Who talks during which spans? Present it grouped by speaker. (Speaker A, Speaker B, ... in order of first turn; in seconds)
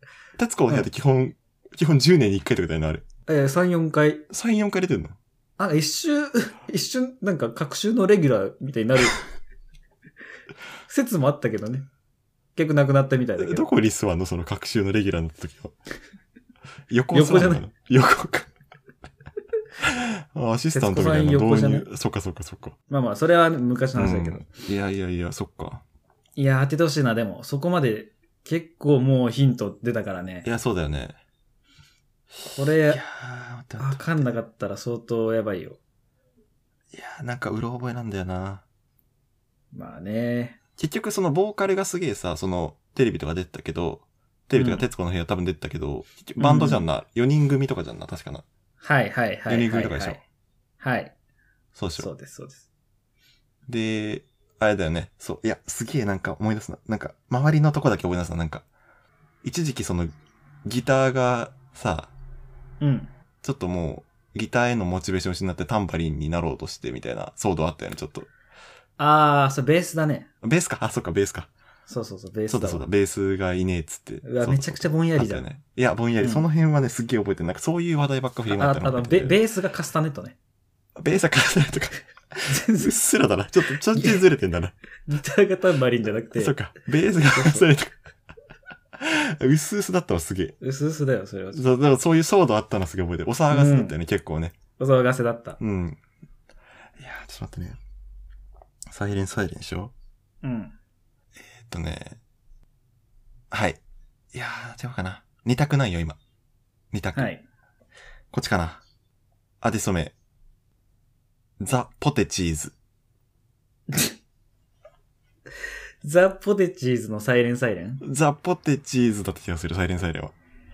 Speaker A: 0.4-3.0, 4.3-5.2, 13.4-15.7, 16.9-18.5, 19.8-22.8, 24.0-25.8, 30.4-31.2, 32.9-34.3, 36.9-38.6, 40.8-48.5, 49.5-50.2, 51.8-52.1, 53.7-58.7, 59.4-60.1, 60.6-62.1, 63.4-68.3, 70.4-71.5, 72.5-79.4, 81.0-84.8, 86.3-88.0, 89.0-90.6, 91.5-94.6, 95.6-96.0, 97.0-97.8, 98.9-99.9, 101.5-102.2, 103.5-103.8, 104.3-106.2, 106.9-107.3, 108.3-108.8, 109.6-110.1, 111.6-112.8, 118.0-120.3
Speaker B: 3.3-4.2, 5.6-9.2, 10.9-11.9, 12.6-13.7, 17.1-17.6, 20.7-21.9, 22.9-24.5, 26.4-30.5, 32.5-33.0, 33.8-35.8, 39.7-40.6, 44.5-44.9, 46.4-46.9, 48.8-50.2, 50.8-51.1, 52.0-52.6, 62.8-63.1, 69.0-70.3, 71.9-72.9, 74.2-75.5, 78.5-80.4, 82.5-83.0, 83.9-84.2, 85.1-86.7, 87.3-87.7, 90.6-91.7, 93.5-94.0, 94.8-95.6, 100.4-100.8, 107.2-107.4, 116.0-118.0